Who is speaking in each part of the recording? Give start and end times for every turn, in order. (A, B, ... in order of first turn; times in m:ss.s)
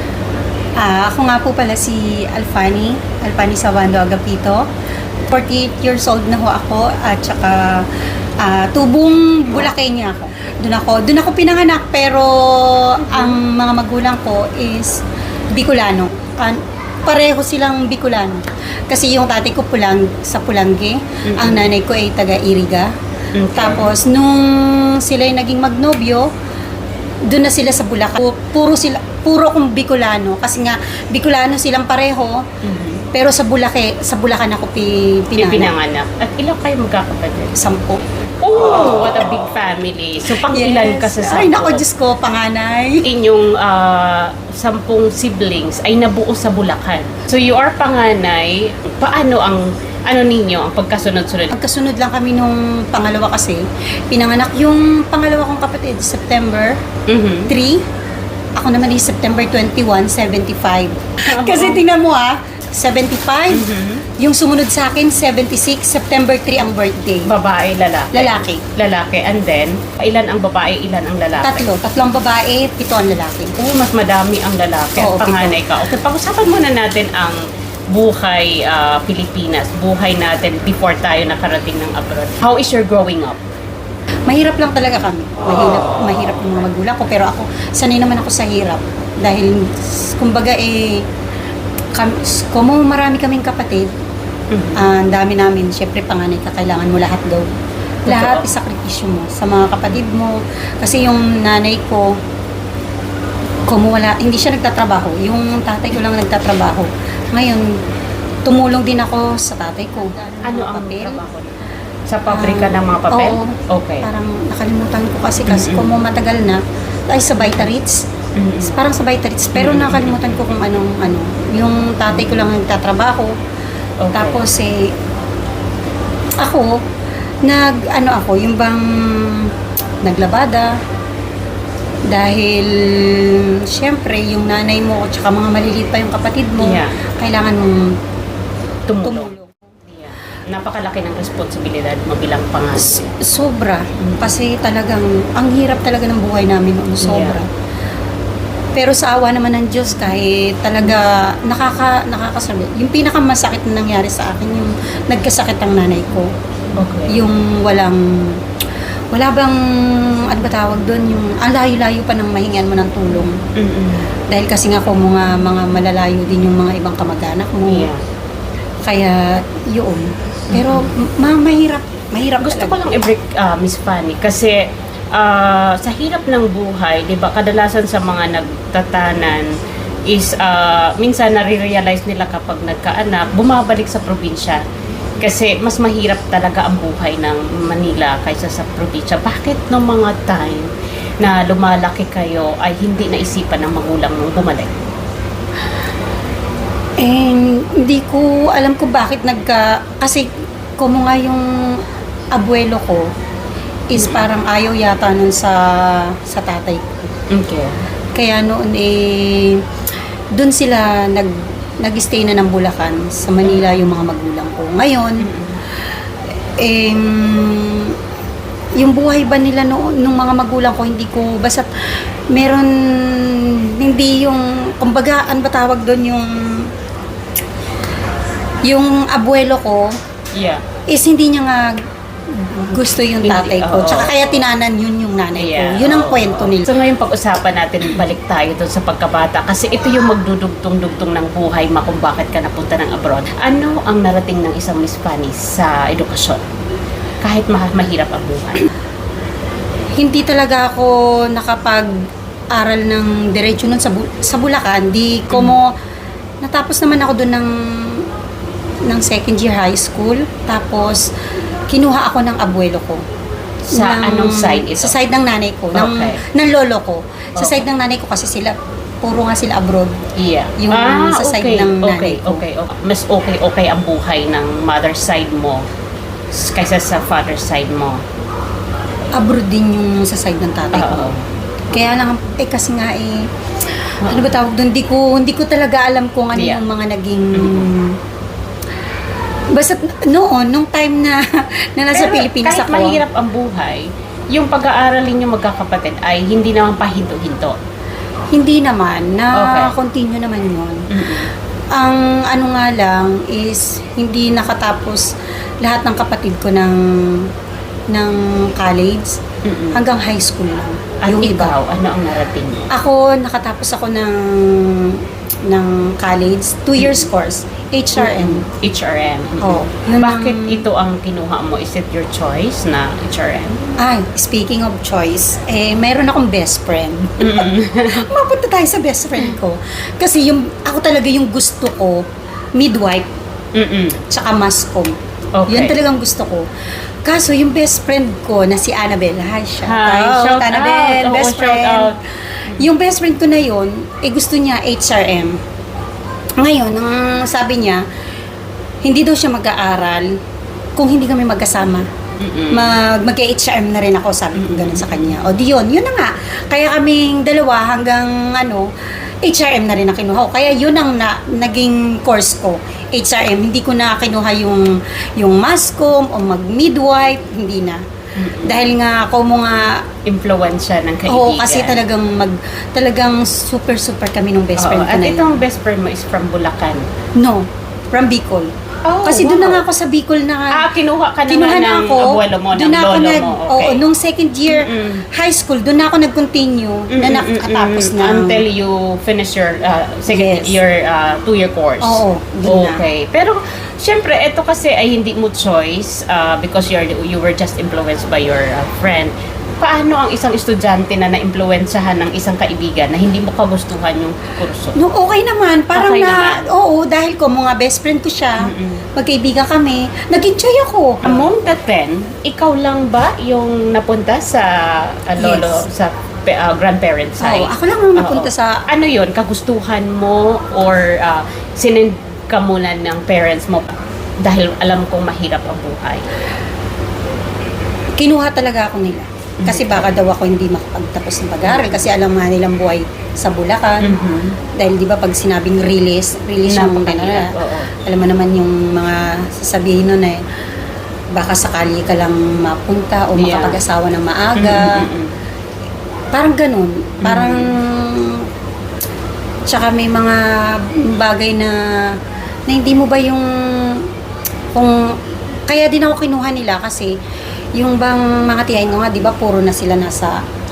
0:00.8-0:04.6 A
0:05.3-0:22.9 A
0:13.1-0:13.4 B
0:21.2-0:21.7 B
0:23.3-0:23.9 B
0:23.6-0:26.3 A
0:27.3-0:32.5 A
0:32.6-0:33.1 B
0:33.1-0:35.7 A
0:35.4-0:37.6 B
0:37.6-0:38.0 A
0:38.4-0:41.8 B
0:40.3-0:43.0 A
0:43.0-0:51.6 B
0:51.5-0:56.8 A
0:57.1-0:57.5 B
0:57.5-0:57.9 A
0:58.6-1:07.3 A
1:01.2-1:01.8 B
1:03.5-1:04.0 B
1:07.3-1:11.7 B
1:08.1-1:08.6 A
1:11.4-1:13.5 A
1:13.6-1:17.4 B
1:15.0-1:15.6 A
1:17.9-1:23.4 B
1:24.3-1:31.1 A
1:31.9-1:33.9 A
1:34.5-1:34.9 B
1:34.8-1:37.5 A
1:38.0-1:42.2 A
1:38.1-1:38.5 B
1:43.7-1:47.7 A
1:48.4-1:51.2 A
1:50.4-1:51.5 B
1:52.1-1:54.1 B
1:52.3-2:03.4 A
1:55.5-1:56.0 B
1:58.4-1:58.8 B
1:59.6-2:00.2 B
2:02.2-2:02.5 B
2:04.0-2:04.4 B
2:04.1-2:05.0 A
2:06.4-2:06.8 A
2:07.4-2:10.8 A
2:12.1-2:18.0 A
2:16.6-2:17.0 B
2:18.9-2:19.3 B
2:19.0-2:19.5 A
2:19.9-2:23.1 B
2:23.2-2:27.5 A
2:24.0-2:24.3 B
2:27.0-2:27.4 B
2:28.8-2:36.3 A
2:36.8-2:37.2 B
2:37.1-2:38.4 A
2:39.1-2:43.4 A
2:43.6-2:44.1 B
2:44.3-2:47.9 A
2:47.7-2:48.0 B
2:48.8-2:52.8 A
2:50.5-2:50.9 B
2:52.4-2:59.6 B
3:00.1-3:04.6 B
3:05.2-3:14.8 B
3:17.0-3:23.1 A
3:23.9-3:27.1 A
3:24.0-3:24.3 B
3:27.3-3:27.8 B
3:28.1-3:29.6 A
3:30.3-3:35.3 A
3:35.2-3:35.6 B
3:36.6-3:38.0 A
3:38.8-3:46.7 A
3:48.6-3:49.9 A
3:50.4-3:50.6 B
3:50.9-3:56.7 A
3:53.2-3:54.4 B
3:55.4-4:06.4 B
4:07.2-4:08.7 B
4:10.0-4:12.0 A
4:12.5-4:15.8 A
4:15.3-4:15.6 B
4:16.4-4:18.1 A
4:18.8-4:21.1 A
4:21.7-4:23.0 A
4:23.7-4:25.0 B
4:23.7-4:30.0 A
4:25.8-4:26.2 B
4:27.4-4:27.6 B
4:30.2-4:35.6 B
4:30.6-4:32.4 A
4:36.3-4:38.0 B
4:39.2-4:41.1 A
4:40.7-4:41.3 B
4:41.7-4:48.0 A
4:44.0-4:44.3 B
4:46.3-4:46.6 B
4:47.3-4:47.7 B
4:49.5-4:53.0 A
4:51.9-4:57.6 B
4:58.3-5:07.3 A
4:59.3-4:59.8 B
5:00.9-5:01.3 B
5:07.9-5:11.6 A
5:09.4-5:09.8 B
5:11.0-5:12.7 B
5:12.7-5:18.5 A
5:16.8-5:17.1 B
5:18.0-5:23.6 B
5:19.4-5:20.7 A
5:23.8-5:32.0 A
5:27.2-5:28.0 B
5:32.6-5:33.1 A
5:33.6-5:34.0 B
5:34.1-5:36.5 A
5:35.4-5:35.8 B
5:37.0-5:45.4 A
5:39.6-5:42.0 B
5:46.4-5:47.8 A
5:48.8-5:50.2 A
5:50.8-5:51.9 A
5:52.2-5:52.8 B
5:52.5-6:07.8 A
5:54.4-5:55.2 B
6:08.2-6:08.6 B
6:08.4-6:09.9 A
6:10.0-6:11.8 B
6:11.1-6:15.4 A
6:14.6-6:16.9 B
6:17.2-6:18.5 A
6:18.9-6:19.6 B
6:19.0-6:20.7 A
6:20.5-6:23.8 B
6:21.3-6:28.4 A
6:24.5-6:25.1 B
6:26.9-6:44.8 B
6:30.1-6:30.6 A
6:31.8-6:32.8 A
6:44.8-6:51.3 A
6:45.7-6:46.5 B
6:48.4-6:48.8 B
6:51.0-7:06.1 B
6:55.2-6:55.7 A
6:57.2-6:58.6 A
7:08.0-7:14.0 A
7:09.4-7:09.9 B
7:11.4-7:11.8 B
7:13.8-7:14.4 B
7:14.5-7:20.2 A
7:16.5-7:17.7 B
7:21.1-7:24.9 A
7:23.2-7:23.6 B
7:24.4-7:25.1 B
7:26.1-7:28.3 A
7:27.0-7:27.6 B
7:29.5-7:33.9 A
7:34.5-7:37.0 A
7:37.6-7:40.2 A